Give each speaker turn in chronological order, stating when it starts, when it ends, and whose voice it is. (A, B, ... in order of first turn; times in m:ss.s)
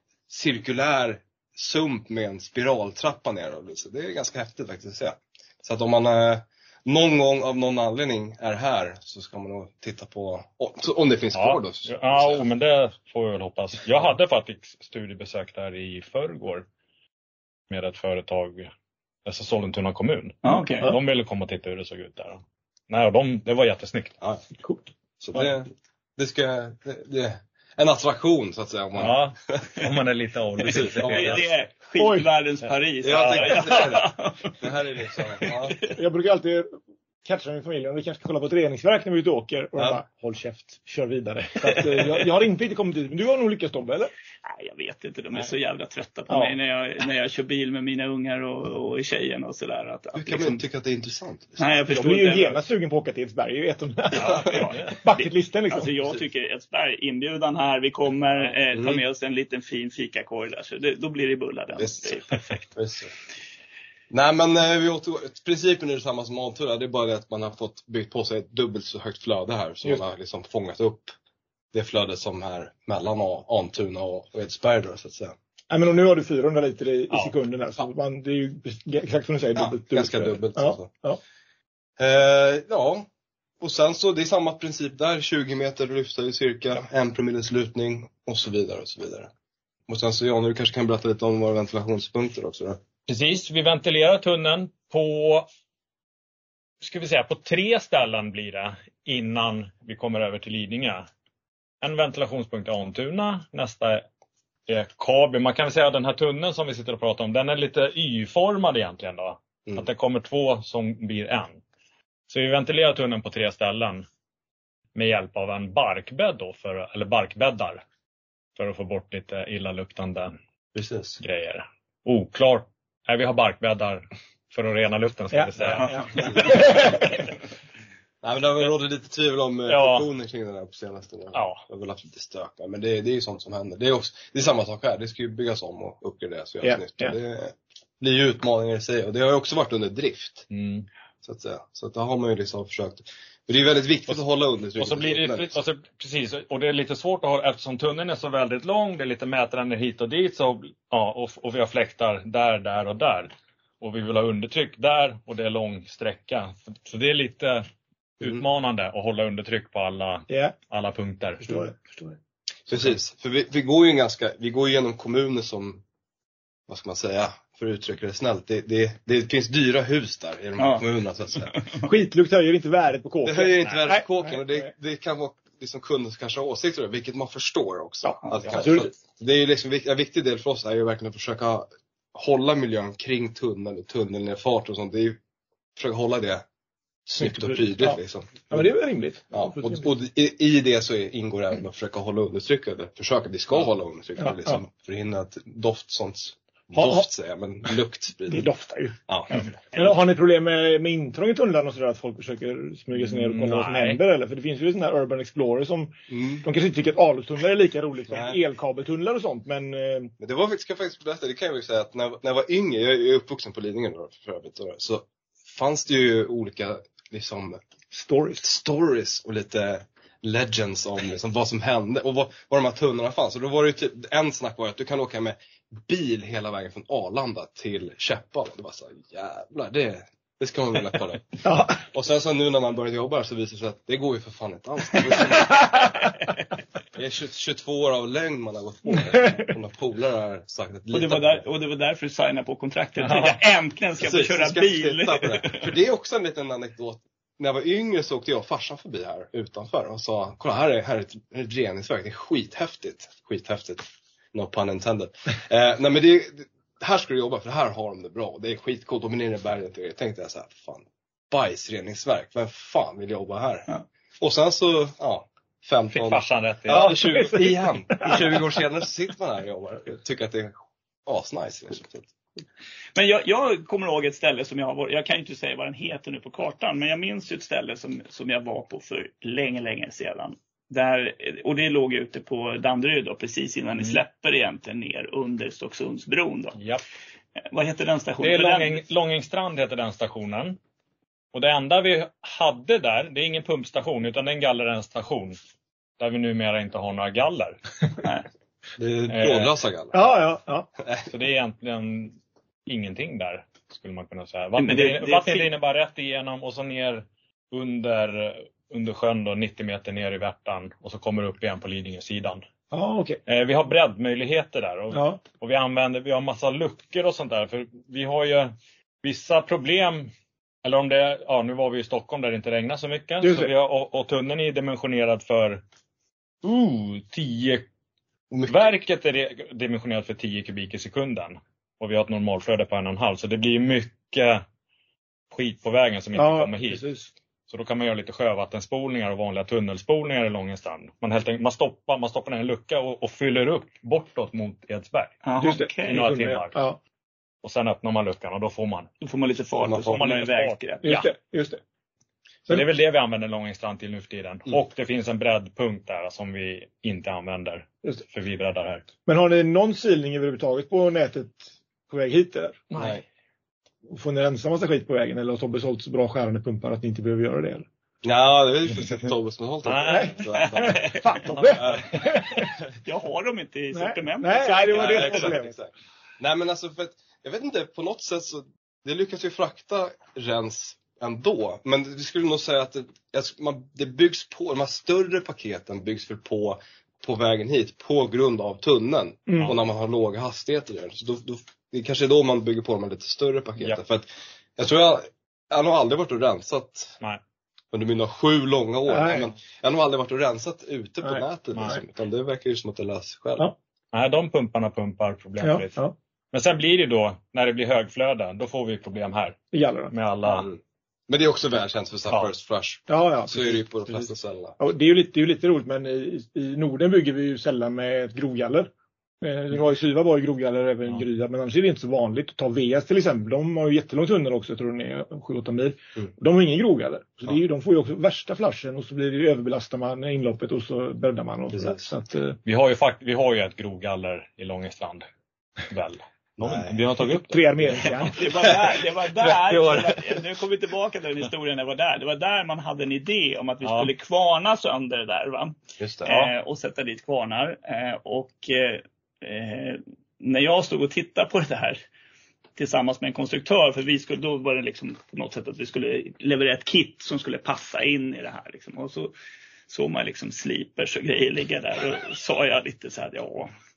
0:00.3-0:12.4 A
0:11.3-0:16.6 B
0:17.7-0:18.7 B
0:19.2-0:24.2 B
0:20.4-0:20.9 C
0:25.2-0:29.7 A
0:29.0-0:31.4 B
0:30.6-0:31.4 A
0:31.0-0:34.5 C
0:32.0-0:32.3 D
0:33.0-0:35.8 A
0:33.2-0:34.0 B
0:35.9-0:44.1 D
0:41.6-0:42.1 C
0:44.5-0:50.6 C
0:50.1-0:51.6 A
0:51.6-0:52.6 C
0:51.9-0:55.9 D
0:54.2-1:02.4 C
0:54.2-0:54.9 B
0:58.7-0:59.0 A
1:01.8-1:02.2 A
1:02.7-1:03.1 A
1:04.1-1:11.1 A
1:11.7-1:15.3 A
1:15.7-1:21.2 D
1:19.5-1:20.9 A
1:22.0-1:23.1 A
1:23.6-1:29.3 A
1:29.9-1:32.8 A
1:33.0-1:35.5 B
1:36.8-1:41.1 B
1:41.8-1:44.0 B
1:44.7-1:51.6 B
1:52.3-1:54.0 B
1:54.9-1:57.8 B
1:58.6-2:00.3 B
2:00.7-2:01.2 A
2:01.2-2:07.1 B
2:05.3-2:07.0 D
2:06.1-2:06.8 A
2:08.2-2:20.5 A
2:09.7-2:10.0 B
2:11.3-2:11.6 B
2:16.6-2:17.1 D
2:20.5-2:20.9 B
2:21.2-2:25.5 A
2:24.8-2:37.6 B
2:38.2-2:41.6 B
2:40.3-2:40.5 D
2:41.4-2:42.2 D
2:42.7-2:45.8 A
2:46.7-2:51.5 A
2:50.6-2:50.8 C
2:51.4-2:51.7 C
2:51.8-2:54.7 D
2:53.2-3:05.2 A
2:58.0-2:58.9 D
3:05.8-3:06.4 A
3:07.0-3:08.7 A
3:07.2-3:09.9 D
3:09.3-3:18.5 A
3:14.2-3:14.6 D
3:16.7-3:17.0 D
3:18.3-3:30.1 D
3:22.9-3:24.0 B
3:26.1-3:26.5 A
3:28.1-3:28.4 A
3:30.2-3:37.6 A
3:37.9-3:38.4 D
3:38.4-3:55.9 A
3:51.4-3:51.8 D
3:56.9-4:01.4 A
3:59.2-3:59.5 D
4:00.9-4:05.7 C
4:04.0-4:23.7 A
4:24.2-4:32.1 A
4:25.9-4:27.3 B
4:26.7-4:28.2 D
4:32.9-4:46.6 C
4:46.6-4:46.8 B
4:47.5-4:48.8 C
4:48.2-4:50.6 B
4:51.3-4:55.4 B
4:56.0-4:57.6 B
4:58.8-5:00.1 A
4:59.1-4:59.5 B
4:59.9-5:00.7 D
5:00.8-5:01.1 A
5:01.1-5:12.4 B
5:04.6-5:05.5 C
5:12.7-5:13.2 D
5:13.2-5:20.1 B
5:14.9-5:15.2 D
5:20.6-5:25.6 B
5:23.2-5:23.5 D
5:26.4-5:27.6 B
5:28.3-5:28.6 A
5:28.4-5:34.4 B
5:35.3-5:36.8 B
5:36.1-5:37.1 D
5:37.5-5:45.2 B
5:45.2-5:46.0 C
5:45.4-5:46.8 D
5:45.8-5:46.6 B
5:47.4-5:48.9 B
5:49.0-5:50.8 C
5:49.6-5:50.0 A
5:49.8-5:51.1 B
5:50.8-5:51.6 D
5:52.5-5:58.9 B
5:59.0-6:02.7 D
6:02.7-6:03.0 B
6:02.8-6:03.0 A
6:03.9-6:07.7 D
6:08.0-6:11.0 A
6:09.6-6:12.4 B
6:09.8-6:12.5 D
6:10.6-6:11.1 C
6:11.5-6:12.4 A
6:12.8-6:15.3 C
6:13.7-6:15.5 D
6:14.7-6:37.0 A
6:37.7-6:43.5 A
6:38.9-6:39.3 D
6:41.0-6:41.8 D
6:43.9-6:50.5 B
6:45.4-6:45.9 D
6:49.5-6:49.9 D
6:50.2-6:54.6 A
6:52.9-6:58.7 D
6:59.2-7:12.4 D
7:11.5-7:11.8 A
7:12.4-7:15.0 B
7:15.7-7:17.9 B
7:16.4-7:16.7 A
7:17.1-7:18.2 D
7:18.0-7:31.8 C
7:23.6-7:23.9 B
7:25.8-7:26.1 A
7:26.0-7:26.3 B
7:32.6-7:39.1 C
7:39.7-7:43.5 C